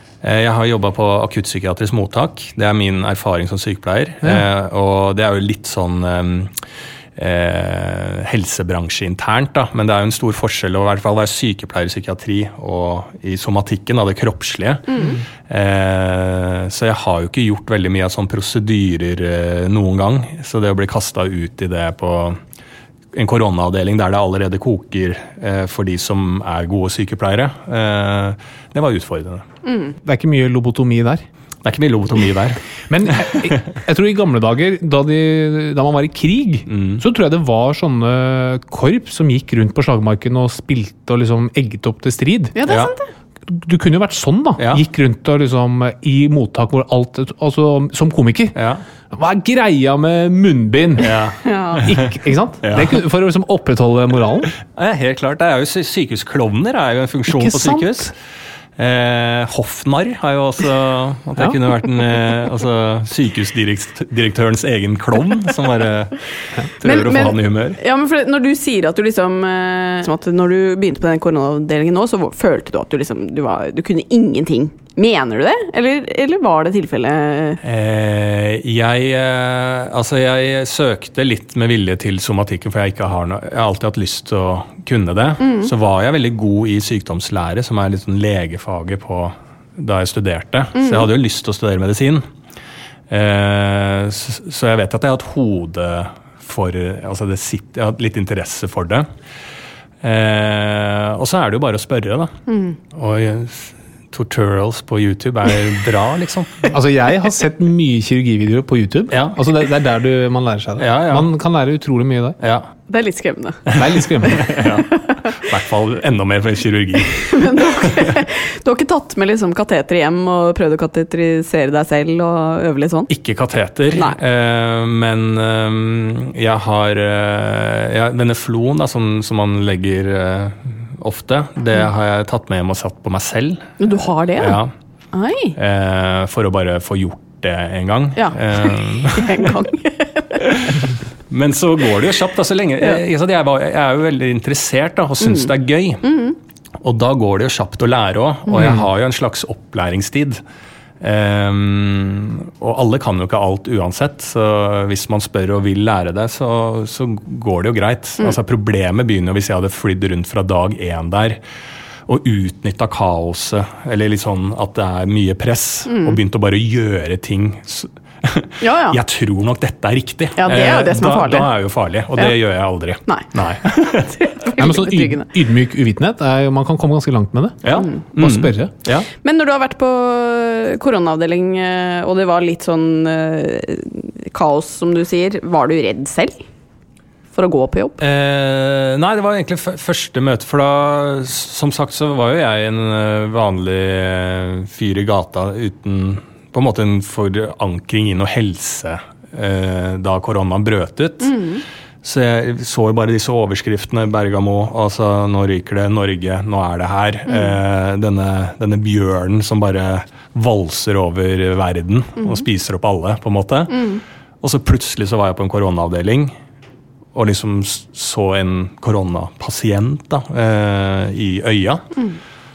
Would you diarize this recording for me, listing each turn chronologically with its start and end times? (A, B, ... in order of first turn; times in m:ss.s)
0:00.2-0:06.5 A
0:07.2-0:14.9 A
0:14.9-0:15.2 B
0:15.5-0:22.4 A
0:23.1-0:29.4 A
0:29.7-0:29.9 B
0:30.0-0:31.2 C
0:31.6-0:32.6 A
0:32.9-0:42.6 C
0:33.2-0:33.6 A
0:36.7-0:37.0 A
0:42.5-0:43.1 B
0:42.6-0:42.9 A
0:43.5-0:48.6 C
0:44.6-0:44.8 A
0:48.5-0:48.8 A
0:49.1-0:51.2 C
0:51.0-0:52.1 A
0:51.4-0:51.8 B
0:51.8-0:54.5 C
0:52.6-0:53.0 A
0:54.6-0:58.1 A
0:57.3-0:58.1 C
0:58.8-1:06.2 A
1:06.8-1:07.8 A
1:06.8-1:17.6 B
1:17.6-1:32.2 A
1:25.4-1:25.7 B
1:30.8-1:31.1 B
1:33.1-1:39.1 A
1:40.0-1:42.3 A
1:42.5-1:42.8 B
1:42.9-1:46.7 A
1:46.7-1:52.4 C
1:49.1-1:49.4 A
1:50.8-1:51.3 A
1:52.4-1:52.7 A
1:52.9-1:53.6 B
1:53.7-1:57.4 A
1:53.7-1:54.6 C
1:57.2-2:03.1 B
2:03.1-2:13.7 A
2:03.9-2:04.2 B
2:13.8-2:14.6 B
2:14.4-2:14.7 A
2:15.1-2:15.6 B
2:15.6-2:19.5 A
2:18.2-2:20.4 B
2:20.4-2:26.1 A
2:25.2-2:25.5 B
2:26.0-2:26.4 B
2:26.8-2:30.4 A
2:28.5-2:28.8 C
2:31.0-2:41.4 A
2:42.1-2:54.1 A
2:45.9-2:46.2 B
2:48.6-2:49.0 B
2:50.4-2:51.5 B
2:53.0-2:53.3 B
2:54.1-2:55.3 B
2:54.6-2:57.6 C
2:57.6-2:59.1 A
2:58.2-2:58.7 C
2:59.2-3:06.4 B
3:07.3-3:08.0 B
3:08.0-3:21.4 A
3:21.2-3:21.6 B
3:22.0-3:33.9 A
3:27.3-3:27.6 B
3:32.2-3:32.4 B
3:33.7-3:34.0 B
3:34.4-3:36.3 A
3:37.1-3:41.9 A